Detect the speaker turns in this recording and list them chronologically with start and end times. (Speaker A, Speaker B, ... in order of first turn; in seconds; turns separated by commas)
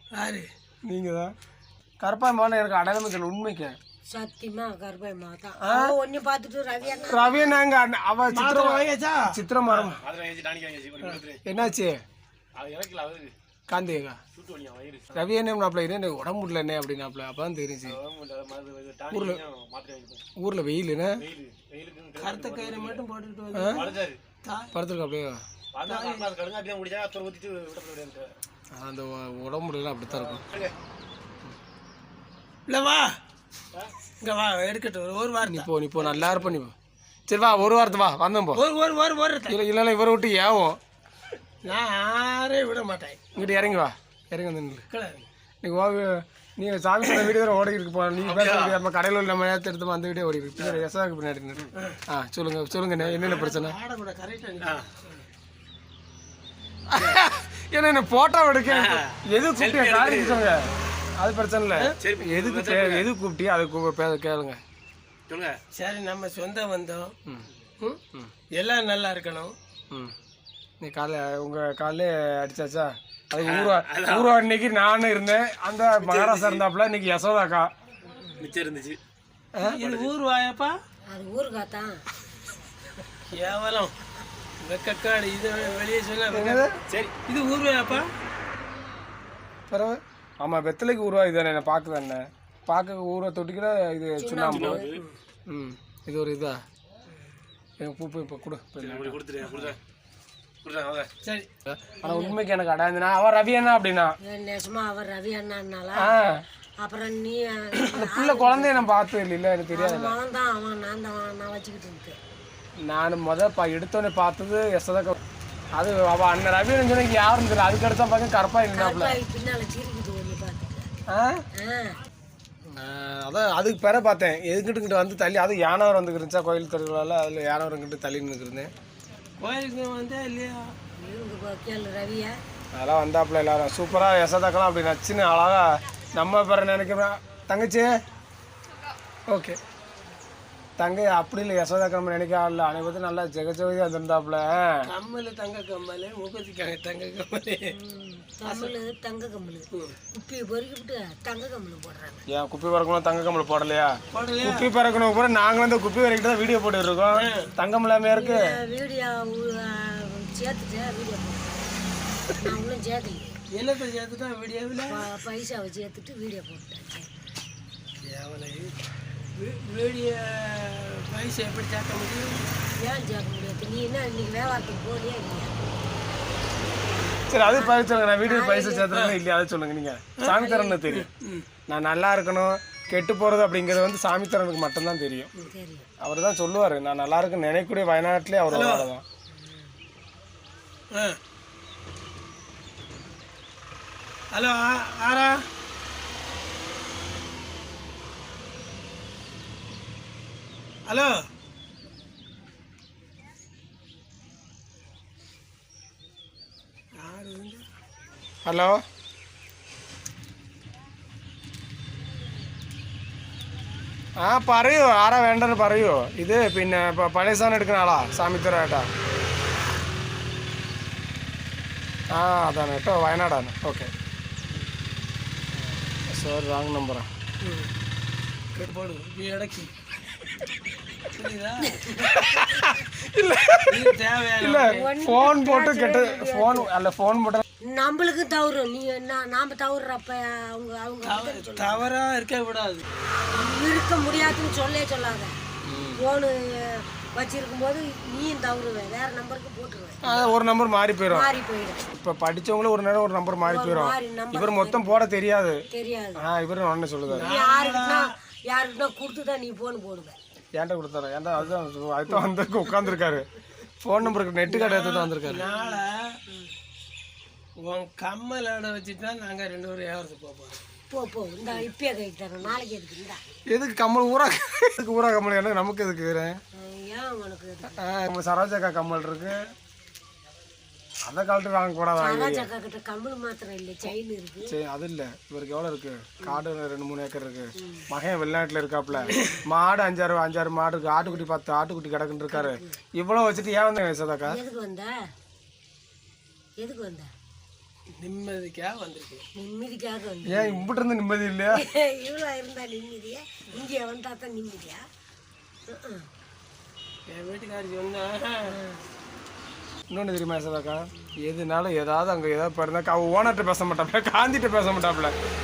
Speaker A: 0.1-0.5, Speaker B: 0.8-1.3, Speaker B: 2.0-3.8, Speaker C: 4.1-7.6, Speaker B: 5.6-6.0, Speaker D: 6.8-7.1, Speaker B: 7.0-10.0, Speaker A: 8.3-9.4, Speaker D: 9.7-11.4, Speaker B: 11.4-12.0, Speaker D: 12.5-13.3, Speaker B: 13.7-14.2, Speaker D: 14.3-15.2, Speaker B: 15.1-18.0, Speaker D: 17.8-20.2, Speaker B: 19.1-19.4, Speaker B: 20.4-21.2, Speaker D: 21.2-23.0, Speaker A: 22.2-24.7, Speaker B: 23.5-23.8, Speaker D: 23.7-24.2, Speaker B: 24.7-25.4, Speaker D: 25.7-28.3, Speaker A: 25.8-26.3, Speaker B: 28.7-30.4, Speaker D: 30.1-30.7, Speaker A: 32.7-33.1, Speaker A: 34.2-36.5, Speaker B: 35.4-36.7, Speaker B: 37.3-38.6, Speaker A: 37.5-37.9, Speaker A: 38.5-39.6, Speaker B: 39.5-40.8, Speaker A: 41.6-43.5, Speaker B: 43.4-44.9, Speaker A: 44.9-45.2, Speaker B: 45.6-53.8, Speaker D: 48.3-48.8, Speaker A: 53.0-55.1, Speaker D: 54.6-54.9, Speaker B: 56.9-64.6, Speaker D: 58.7-60.5, Speaker D: 62.0-63.1, Speaker D: 65.3-65.6, Speaker A: 65.7-67.1, Speaker A: 68.5-69.5, Speaker B: 70.8-77.7, Speaker D: 73.4-74.3, Speaker D: 76.0-76.6, Speaker D: 78.4-79.0, Speaker A: 79.6-80.8, Speaker C: 81.1-82.0, Speaker A: 83.3-83.9, Speaker A: 84.6-86.7, Speaker B: 86.3-86.8, Speaker D: 86.9-87.2, Speaker A: 87.3-88.1, Speaker B: 89.7-94.8, Speaker C: 94.2-94.9, Speaker D: 94.5-95.0, Speaker B: 95.5-96.6, Speaker B: 97.8-99.7, Speaker D: 98.8-99.8, Speaker D: 100.6-101.1, Speaker A: 101.2-101.5, Speaker B: 101.7-104.1, Speaker C: 102.0-102.4, Speaker C: 104.2-106.2, Speaker B: 106.0-106.4, Speaker C: 106.8-108.9, Speaker B: 107.8-110.2, Speaker C: 109.7-112.2, Speaker B: 112.8-115.2, Speaker B: 115.7-119.2, Speaker C: 118.7-120.9, Speaker B: 121.1-121.4, Speaker C: 121.6-122.0, Speaker B: 122.8-128.7, Speaker A: 129.4-130.7, Speaker C: 131.0-132.4, Speaker B: 132.7-137.9, Speaker B: 139.3-139.6, Speaker B: 140.8-144.9, Speaker A: 144.8-147.7, Speaker C: 147.7-152.2, Speaker A: 148.5-148.7, Speaker B: 152.3-158.5, Speaker A: 154.1-154.7, Speaker A: 157.1-157.5, Speaker C: 158.1-163.4, Speaker A: 163.5-165.1, Speaker C: 164.9-167.1, Speaker A: 168.0-168.8, Speaker A: 169.3-172.4, Speaker C: 172.8-175.6, Speaker C: 177.1-178.9, Speaker B: 177.3-181.1, Speaker A: 178.9-179.2, Speaker A: 180.2-181.5, Speaker C: 180.3-180.7, Speaker B: 181.7-185.3, Speaker C: 185.4-185.9, Speaker B: 186.0-189.0, Speaker A: 188.5-188.9, Speaker C: 189.3-189.8, Speaker A: 190.9-191.2, Speaker A: 194.3-195.5, Speaker A: 200.8-201.2, Speaker A: 207.0-207.6, Speaker B: 208.4-208.8, Speaker B: 214.2-218.9, Speaker B: 222.1-223.9, Speaker B: 226.1-227.1, Speaker A: 227.4-227.7, Speaker A: 228.5-229.7, Speaker A: 231.1-231.9, Speaker C: 231.8-232.1, Speaker B: 232.0-237.4, Speaker A: 233.7-234.9, Speaker C: 234.7-236.7, Speaker C: 237.6-241.8, Speaker A: 241.0-242.8, Speaker C: 243.3-245.4, Speaker B: 245.6-246.0, Speaker C: 246.0-250.3, Speaker B: 250.0-251.3, Speaker C: 251.1-251.8, Speaker B: 251.9-255.6, Speaker C: 253.4-255.0, Speaker C: 255.7-256.2, Speaker B: 256.2-257.3, Speaker A: 257.1-258.1, Speaker C: 257.2-260.2, Speaker B: 260.6-263.3, Speaker B: 263.8-265.4, Speaker A: 264.5-266.2, Speaker C: 265.4-265.8, Speaker A: 267.6-270.6, Speaker C: 270.9-273.2, Speaker B: 273.5-276.4, Speaker C: 276.6-277.8, Speaker B: 277.7-279.4, Speaker B: 281.1-282.5, Speaker C: 282.0-284.5, Speaker B: 284.4-294.4, Speaker C: 287.6-287.9, Speaker C: 288.9-289.4, Speaker C: 292.3-292.8, Speaker C: 294.2-295.1, Speaker C: 296.6-297.1, Speaker A: 298.0-299.3, Speaker C: 299.3-300.6, Speaker B: 300.3-301.6, Speaker C: 301.5-304.8, Speaker C: 305.7-306.1, Speaker A: 307.1-308.5, Speaker C: 308.5-308.8, Speaker B: 309.9-315.1